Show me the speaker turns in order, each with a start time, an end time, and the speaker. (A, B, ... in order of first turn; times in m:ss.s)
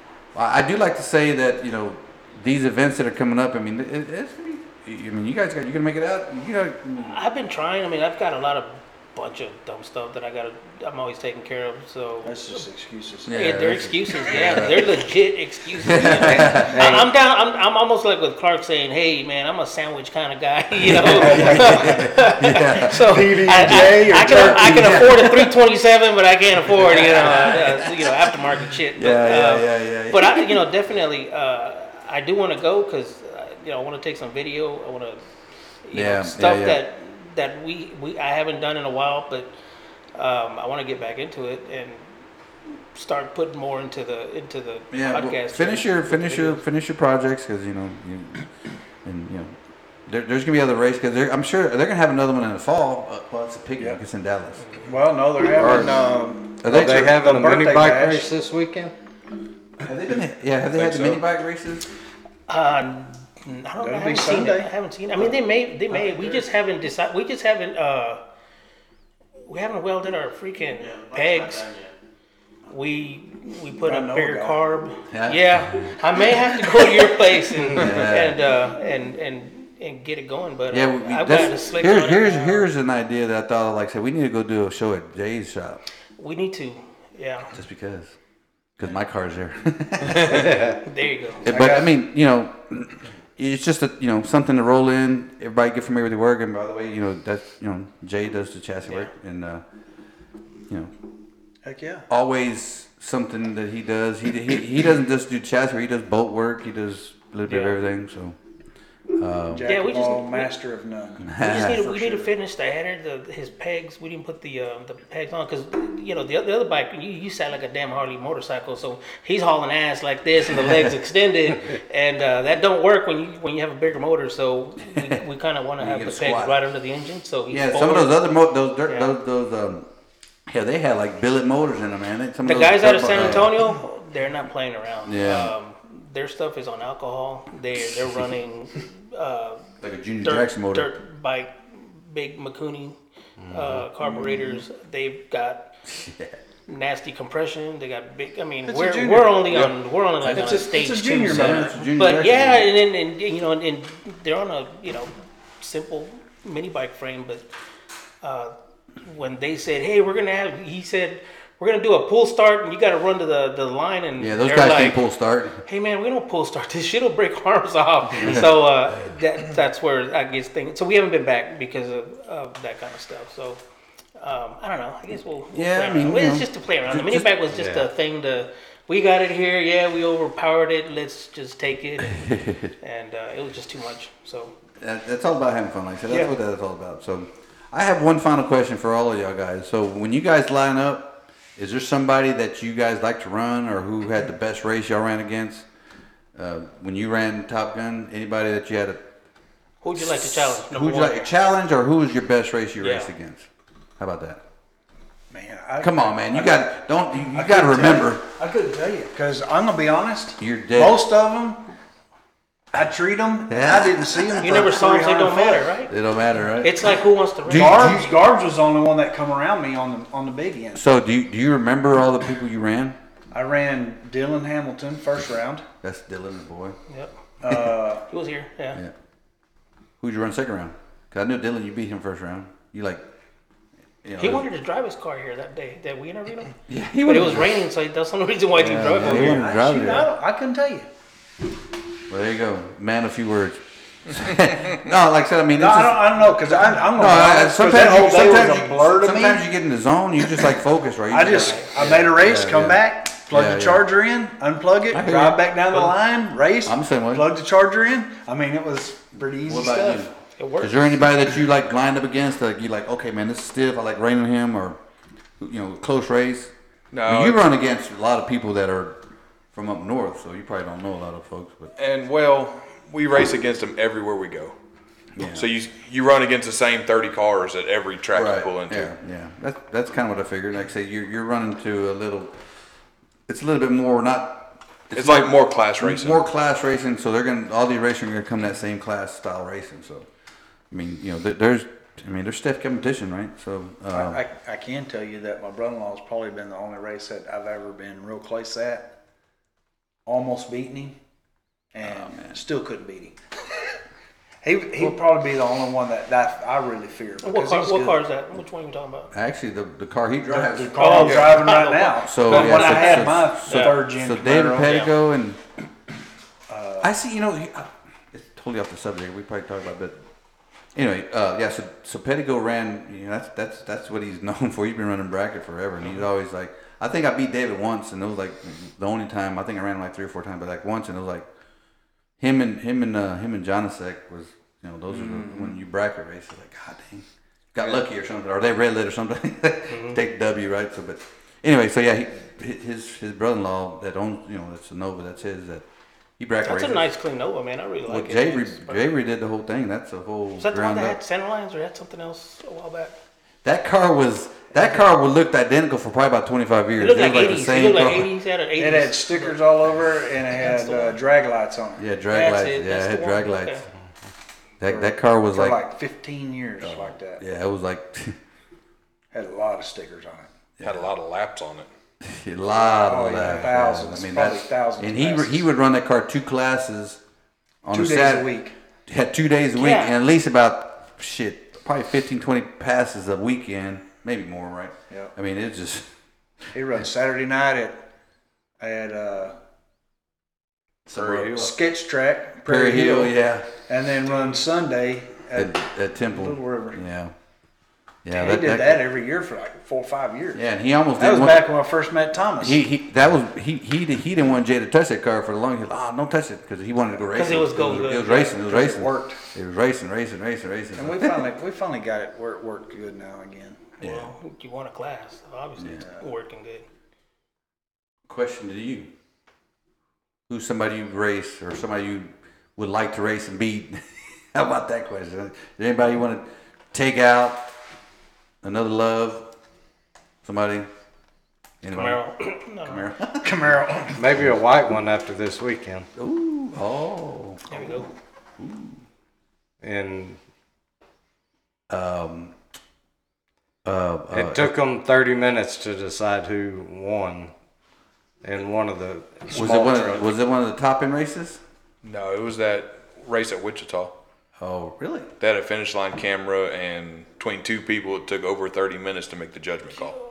0:00.3-0:07.2 A
0:07.0-0:12.6 B
0:12.2-0:13.3 C
0:13.2-0:15.0 A
0:13.3-0:35.2 B
0:15.8-0:16.9 A
0:16.2-0:17.1 D
0:20.8-0:25.6 A
0:21.0-0:22.1 C
0:22.9-0:25.0 C
0:26.7-0:28.3 A
0:28.9-0:30.6 A
0:35.8-0:39.5 B
0:35.9-0:36.8 A
0:40.1-0:42.1 B
0:42.7-0:46.6 B
0:44.9-0:48.5 A
0:49.0-0:49.5 A
0:50.1-0:54.7 A
0:54.8-0:58.3 C
0:55.6-0:56.0 D
0:55.6-0:56.0 A
0:56.6-0:57.2 A
0:56.6-0:58.9 D
0:59.8-1:01.9 A
1:00.8-1:01.1 D
1:02.5-1:08.2 B
1:03.8-1:05.4 C
1:05.9-1:06.5 C
1:09.5-1:11.8 B
1:12.7-1:22.7 B
1:13.8-1:14.6 C
1:15.1-1:16.0 A
1:17.7-1:18.4 A
1:20.7-1:25.8 A
1:26.2-1:27.5 B
1:27.5-1:28.2 A
1:28.8-1:30.6 A
1:30.2-1:30.8 D
1:30.8-1:31.5 B
1:31.4-1:39.6 A
1:31.5-1:31.9 C
1:41.6-1:42.1 C
1:42.1-1:48.4 A
1:47.5-1:47.8 B
1:49.2-1:49.7 A
1:49.5-1:52.3 C
1:49.6-1:50.5 B
1:51.2-1:51.8 A
1:51.4-2:08.2 B
2:00.5-2:00.9 A
2:04.9-2:05.2 A
2:05.8-2:06.6 A
2:07.5-2:09.9 A
2:10.5-2:13.7 A
2:12.4-2:19.7 B
2:15.0-2:15.5 A
2:19.8-2:20.9 A
2:20.2-2:23.0 B
2:23.4-2:23.8 D
2:23.5-2:25.7 B
2:24.0-2:24.6 C
2:25.8-2:26.4 A
2:26.7-2:37.5 B
2:28.6-2:29.7 C
2:29.5-2:30.6 A
2:30.2-2:31.8 C
2:31.2-2:32.7 A
2:38.2-2:45.0 B
2:44.2-2:45.6 A
2:45.6-2:53.6 B
2:48.1-2:49.1 A
2:54.2-3:02.2 B
2:55.5-2:57.3 A
2:57.5-2:57.9 D
3:02.0-3:02.7 A
3:02.8-3:04.5 B
3:04.8-3:15.7 A
3:16.3-3:19.0 A
3:19.8-3:21.3 B
3:19.9-3:24.4 A
3:22.8-3:23.1 B
3:25.3-3:31.7 C
3:25.8-3:28.2 A
3:30.4-3:31.0 A
3:32.7-3:35.7 C
3:33.5-3:34.6 A
3:34.4-3:35.9 B
3:35.9-3:36.9 A
3:36.6-3:38.0 B
3:37.4-3:38.1 A
3:37.5-3:40.8 C
3:40.7-3:43.0 A
3:43.3-3:45.6 C
3:45.8-3:46.8 A
3:47.4-3:48.1 C
3:48.1-3:48.8 B
3:50.0-3:53.0 A
3:54.0-3:54.5 A
3:54.2-3:59.7 B
3:56.7-3:57.6 A
3:58.5-4:00.1 A
3:58.9-4:00.9 C
4:02.1-4:06.2 A
4:05.6-4:09.5 C
4:06.7-4:13.8 A
4:11.1-4:20.0 C
4:11.4-4:11.7 B
4:14.9-4:16.0 A
4:16.6-4:17.3 A
4:19.4-4:24.8 A
4:20.4-4:20.9 B
4:25.4-4:26.5 A
4:26.9-4:27.4 E
4:27.0-4:29.0 A
4:29.5-4:31.7 A
4:31.8-4:34.5 E
4:35.1-4:35.5 A
4:35.2-4:38.9 E
4:38.1-4:42.4 A
4:43.3-4:50.1 A
4:44.9-4:46.2 E
4:50.7-4:54.2 A
4:53.9-4:58.9 C
5:00.0-5:01.0 C
5:01.7-5:03.2 C
5:01.8-5:02.4 A
5:04.4-5:08.0 C
5:07.2-5:09.1 B
5:09.1-5:11.2 A
5:10.3-5:14.8 C
5:10.8-5:13.8 B
5:11.0-5:11.4 E
5:12.0-5:15.4 A
5:14.6-5:14.9 B
5:16.5-5:16.9 C
5:16.8-5:20.0 A
5:20.7-5:31.3 A
5:32.2-5:45.6 A
5:34.9-5:35.6 C
5:39.7-5:40.0 B
5:46.2-5:46.9 A
5:46.4-5:48.8 B
5:47.9-5:51.0 A
5:50.4-5:52.9 B
5:53.4-5:58.1 A
5:56.8-5:59.4 B
5:58.6-6:01.8 C
6:00.3-6:01.0 B
6:01.8-6:03.6 A
6:02.1-6:03.6 B
6:04.6-6:05.6 A
6:04.6-6:07.2 C
6:06.6-6:08.2 A
6:09.1-6:10.3 C
6:10.6-6:10.8 A
6:10.6-6:11.7 E
6:12.0-6:17.0 A
6:12.6-6:15.4 C
6:17.6-6:18.3 A
6:17.7-6:18.5 C
6:18.9-6:25.9 A
6:19.6-6:19.9 B
6:26.5-6:27.8 C
6:28.6-6:29.4 C
6:30.9-6:31.6 A
6:30.9-6:31.5 E
6:31.3-6:33.1 C
6:32.4-6:33.5 A
6:33.7-6:36.8 C
6:35.3-6:37.1 A
6:38.0-6:38.8 A
6:38.1-6:40.4 C
6:40.3-6:41.5 A
6:41.0-6:42.6 C
6:42.4-6:51.3 A
6:47.1-6:48.3 B
6:47.6-6:49.2 C
6:50.8-6:53.7 C
6:53.8-6:54.1 A
6:53.8-6:56.6 B
6:55.6-6:55.8 A
6:55.8-6:56.0 C
6:58.1-6:58.9 A
7:00.3-7:07.4 A
7:08.4-7:09.3 A
7:10.2-7:10.7 A
7:11.6-7:12.0 A
7:11.7-7:12.8 B
7:12.6-7:13.5 A
7:13.2-7:14.0 C
7:13.9-7:15.9 D
7:16.0-7:17.7 A
7:17.5-7:17.9 B
7:18.4-7:18.8 A
7:19.6-7:20.2 D
7:21.7-7:22.3 A
7:23.6-7:24.5 A
7:24.1-7:27.3 D
7:28.2-7:30.1 D
7:29.3-7:31.4 A
7:31.8-7:33.9 E
7:34.4-7:35.1 A
7:35.2-7:40.0 E